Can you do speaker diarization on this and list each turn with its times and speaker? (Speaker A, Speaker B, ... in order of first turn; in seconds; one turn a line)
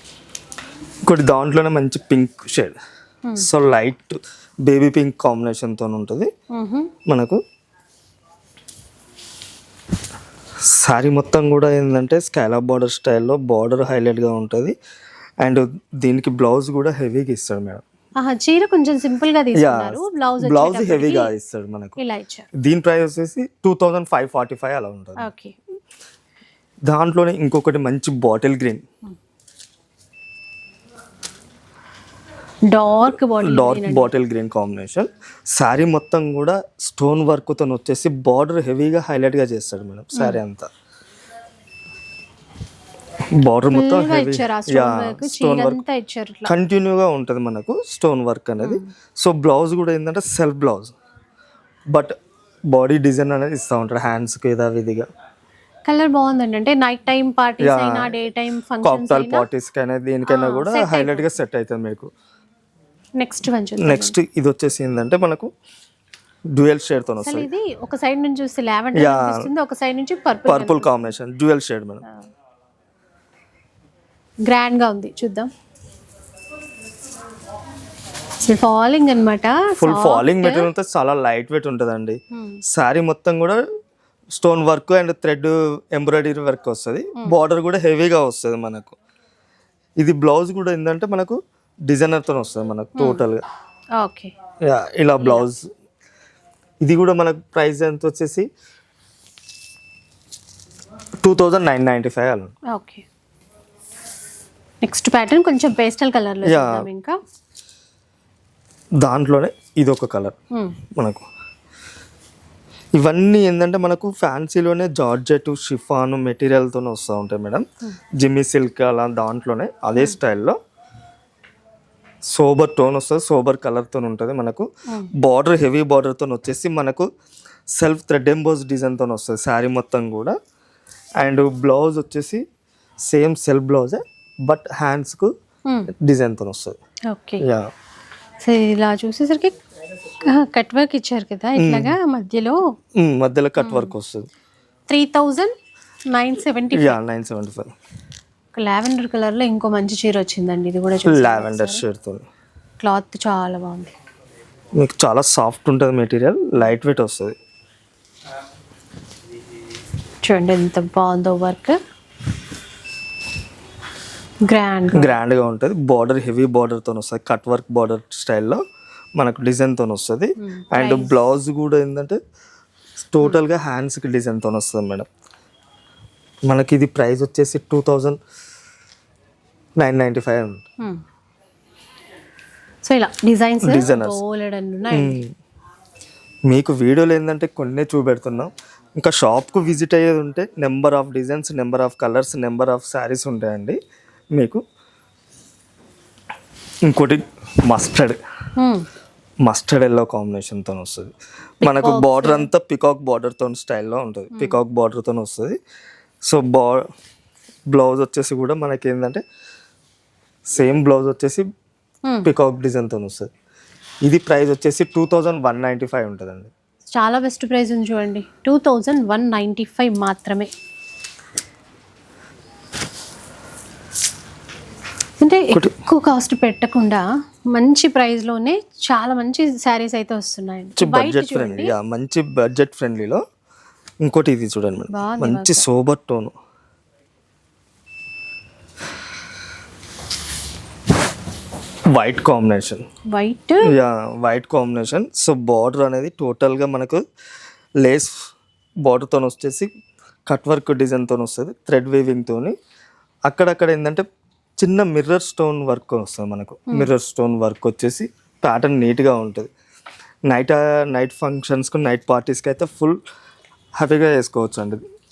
Speaker A: 1.1-2.7
Speaker A: 3.4-6.3
Speaker B: 6.5-6.9
Speaker A: 7.1-7.4
Speaker A: 10.7-14.8
Speaker A: 15.4-17.8
Speaker B: 18.2-21.3
Speaker A: 19.5-22.0
Speaker B: 22.0-22.5
Speaker A: 22.6-25.3
Speaker B: 25.2-25.5
Speaker A: 26.9-28.8
Speaker B: 32.7-34.1
Speaker A: 33.4-40.7
Speaker B: 40.1-40.4
Speaker A: 43.4-45.8
Speaker B: 43.7-46.5
Speaker A: 46.5-50.9
Speaker B: 48.6-48.9
Speaker A: 52.7-55.0
Speaker B: 55.9-59.5
Speaker A: 57.6-58.2
Speaker A: 58.8-62.1
Speaker B: 60.2-61.3
Speaker B: 63.2-64.2
Speaker A: 63.8-65.5
Speaker A: 66.5-67.5
Speaker B: 67.2-71.1
Speaker A: 69.0-69.5
Speaker A: 70.5-72.0
Speaker B: 74.5-75.5
Speaker B: 78.4-80.7
Speaker A: 79.8-82.2
Speaker B: 82.3-82.6
Speaker A: 82.7-83.6
Speaker A: 84.3-88.9
Speaker A: 90.0-93.4
Speaker B: 93.0-93.2
Speaker B: 94.0-94.3
Speaker A: 94.7-95.7
Speaker B: 95.2-95.4
Speaker A: 96.8-98.5
Speaker A: 101.2-102.5
Speaker B: 102.7-103.0
Speaker B: 104.8-107.2
Speaker A: 106.5-106.8
Speaker A: 109.0-110.3
Speaker A: 111.0-111.2
Speaker A: 113.0-117.6
Speaker A: 118.2-120.6
Speaker A: 122.3-124.7
Speaker A: 125.2-127.1
Speaker A: 127.7-130.4
Speaker A: 131.2-132.4
Speaker A: 133.0-135.3
Speaker A: 135.9-136.8
Speaker B: 137.1-137.4
Speaker A: 137.4-137.7
Speaker B: 138.4-139.5
Speaker B: 140.2-142.6
Speaker A: 141.6-142.0
Speaker A: 142.9-144.3
Speaker B: 143.6-143.9
Speaker B: 144.9-145.5
Speaker B: 146.1-147.0
Speaker A: 146.7-147.7
Speaker B: 148.5-151.8
Speaker A: 151.1-152.2
Speaker B: 152.8-153.9
Speaker A: 154.8-157.3
Speaker B: 160.2-161.8
Speaker B: 164.4-165.1
Speaker A: 164.9-168.6
Speaker A: 169.2-172.2
Speaker B: 170.4-171.1
Speaker A: 173.1-175.1
Speaker A: 176.5-178.2
Speaker A: 179.8-180.6
Speaker B: 182.8-185.2
Speaker A: 183.6-184.2
Speaker A: 184.9-185.3
Speaker A: 186.5-193.8
Speaker A: 194.3-194.6
Speaker A: 196.8-198.2
Speaker B: 198.6-198.8
Speaker A: 199.4-205.6
Speaker B: 201.6-202.5
Speaker B: 204.3-204.6
Speaker A: 206.2-206.8
Speaker A: 207.7-209.2
Speaker A: 210.5-211.4
Speaker A: 212.2-213.3
Speaker A: 214.0-216.5
Speaker B: 216.9-220.5
Speaker B: 225.2-231.7
Speaker A: 230.8-233.2
Speaker A: 234.0-236.3
Speaker B: 234.9-235.6
Speaker A: 241.9-242.8
Speaker B: 243.1-243.7
Speaker A: 243.6-247.0
Speaker A: 247.8-248.2
Speaker A: 248.8-249.7
Speaker A: 250.3-252.6
Speaker A: 253.3-254.1
Speaker A: 254.6-259.5
Speaker A: 260.3-263.0
Speaker A: 263.8-264.8